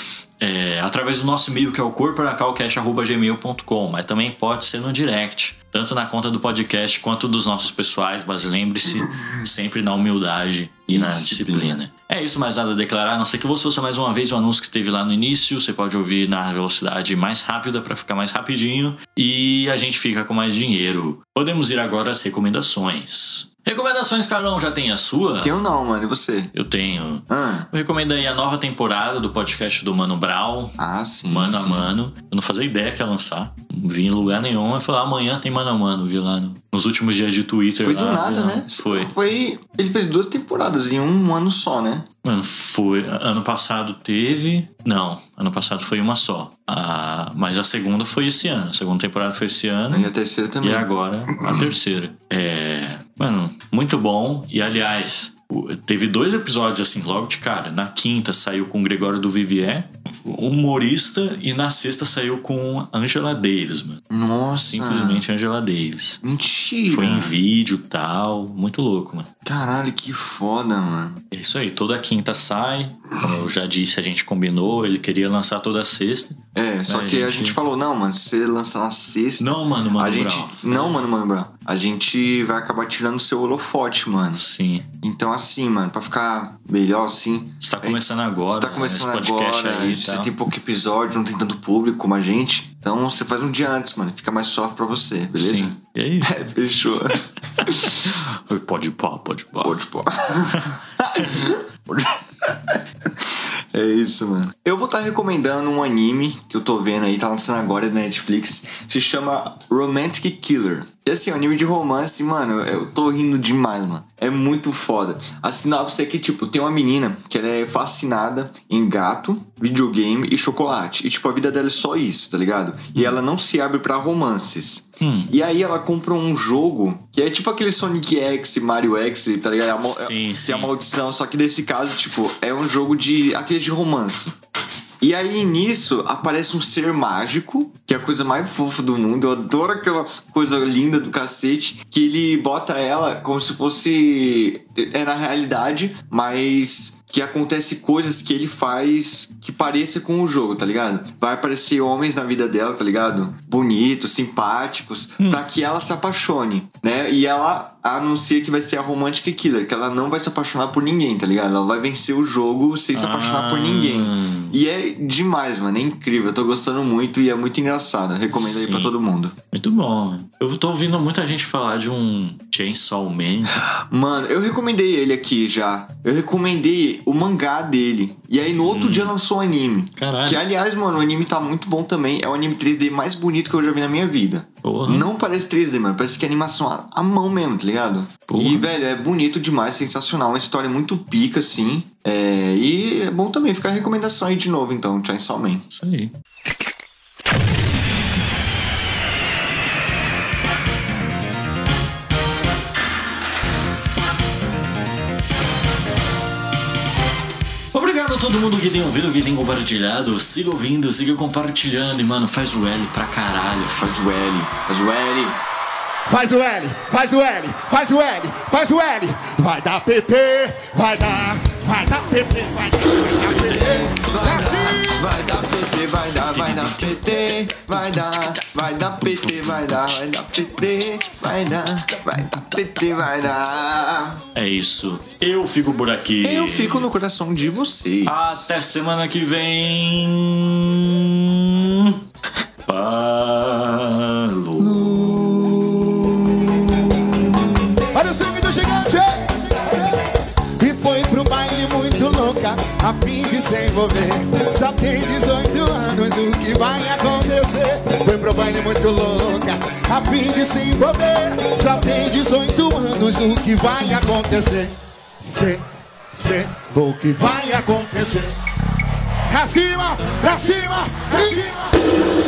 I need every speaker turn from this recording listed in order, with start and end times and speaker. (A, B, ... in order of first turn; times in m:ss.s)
0:00.4-0:25.6 A
0:10.9-0:11.8 B
0:25.4-0:26.5 B
0:26.5-0:30.8 A
0:27.3-0:27.7 B
0:30.8-0:31.9 B
0:31.3-0:39.1 A
0:37.8-0:42.1 B
0:42.2-0:50.1 A
0:49.9-0:51.7 B
0:50.6-1:04.0 A
1:04.1-1:05.2 B
1:04.6-1:06.2 A
1:06.2-1:07.4 B
1:06.9-1:09.3 A
1:09.4-1:11.2 B
1:11.3-1:17.6 A
1:16.5-1:24.4 B
1:19.4-1:21.0 A
1:24.3-1:24.9 A
1:25.0-1:38.2 B
1:27.6-1:30.3 A
1:35.4-1:36.5 A
1:37.8-1:39.8 A
1:39.6-2:14.3 B
2:05.0-2:05.3 A
2:09.8-2:10.7 A
2:15.0-2:49.4 B
2:42.9-2:44.6 A
2:48.3-2:48.9 A
2:49.5-2:53.6 A
2:53.7-3:15.6 B
2:58.7-2:59.1 A
3:00.0-3:00.4 A
3:04.6-3:05.1 A
3:08.3-3:08.7 A
3:15.7-3:16.1 A
3:27.7-3:33.9 A
3:33.8-3:35.4 B
3:36.1-3:45.2 C
3:43.1-3:43.9 A
3:43.5-3:54.2 B
3:46.2-3:48.5 A
3:49.0-3:50.0 A
3:51.7-3:52.6 A
3:54.3-3:56.9 A
3:56.2-3:58.6 B
3:58.0-4:02.0 A
4:02.7-4:05.1 A
4:04.6-4:07.7 B
4:07.9-4:28.3 C
4:29.2-4:32.0 C